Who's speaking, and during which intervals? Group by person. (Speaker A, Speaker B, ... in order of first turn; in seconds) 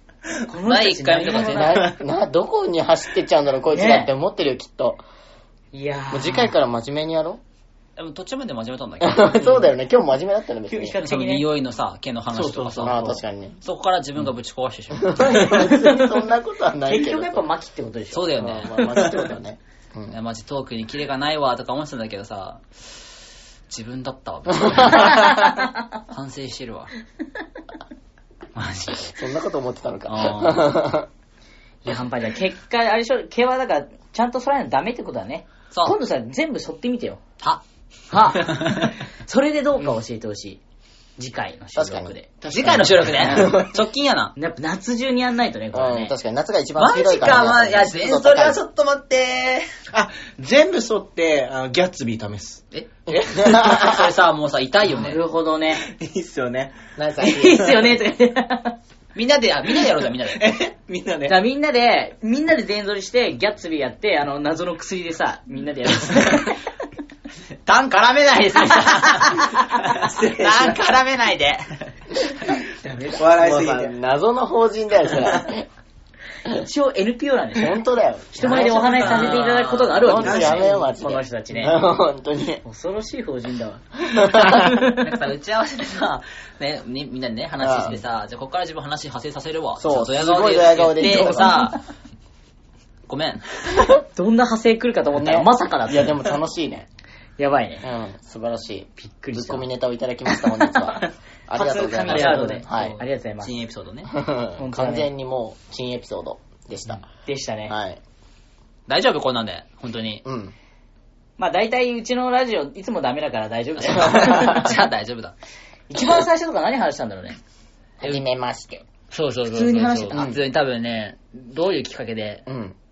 Speaker A: 0.5-1.9, 3.7-4.1, 5.7-6.5, 9.4-9.7, 10.7-11.4, 16.9-19.1, 31.8-37.2, 38.1-40.6, 41.2-42.3, 43.2-43.6, 44.4-46.1, 54.9-55.8, 57.2-58.8, 61.3-66.6, 76.5-77.8, 78.3-81.8, 82.6-85.0, 91.0-91.5, 94.1-96.2, 97.4-97.8, 99.0-99.7, 101.5-103.5, 104.6-105.1, 107.2-107.7, 111.4-114.8, 115.9-117.4, 119.5-120.2
Speaker B: 0.6-1.9, 8.0-9.4, 11.0-15.7, 18.1-18.8, 20.1-22.6, 23.7-26.9, 28.5-29.1, 30.1-30.7, 35.7-36.0, 38.5-38.8, 42.5-44.3, 46.8-49.7, 52.7-55.2, 59.1-60.5, 67.6-71.6, 78.4-80.6, 84.8-91.8, 93.1-94.0, 102.1-102.9, 103.4-104.1, 108.9-110.2, 113.8-115.3, 119.1-122.5
Speaker C: 1.4-5.0, 6.1-7.4, 9.0-11.0, 12.8-13.6, 15.0-17.4, 18.4-20.1, 24.7-25.2, 29.1-31.1, 41.7-43.7, 45.7-48.6, 53.1-54.0, 57.0-57.8, 73.3-75.7, 77.5-79.4, 80.0-82.6, 84.1-84.7, 87.6-88.0, 89.8-91.7, 95.2-96.9, 97.8-103.0, 104.1-107.0, 107.7-108.0, 110.2-110.5, 114.0-114.7, 118.0-118.8, 120.1-120.4, 122.5-122.8
Speaker D: 12.3-13.2, 42.4-43.4, 49.9-52.6, 55.8-56.8, 60.2-61.4, 69.8-70.8, 72.8-73.9, 75.1-75.5, 80.2-80.6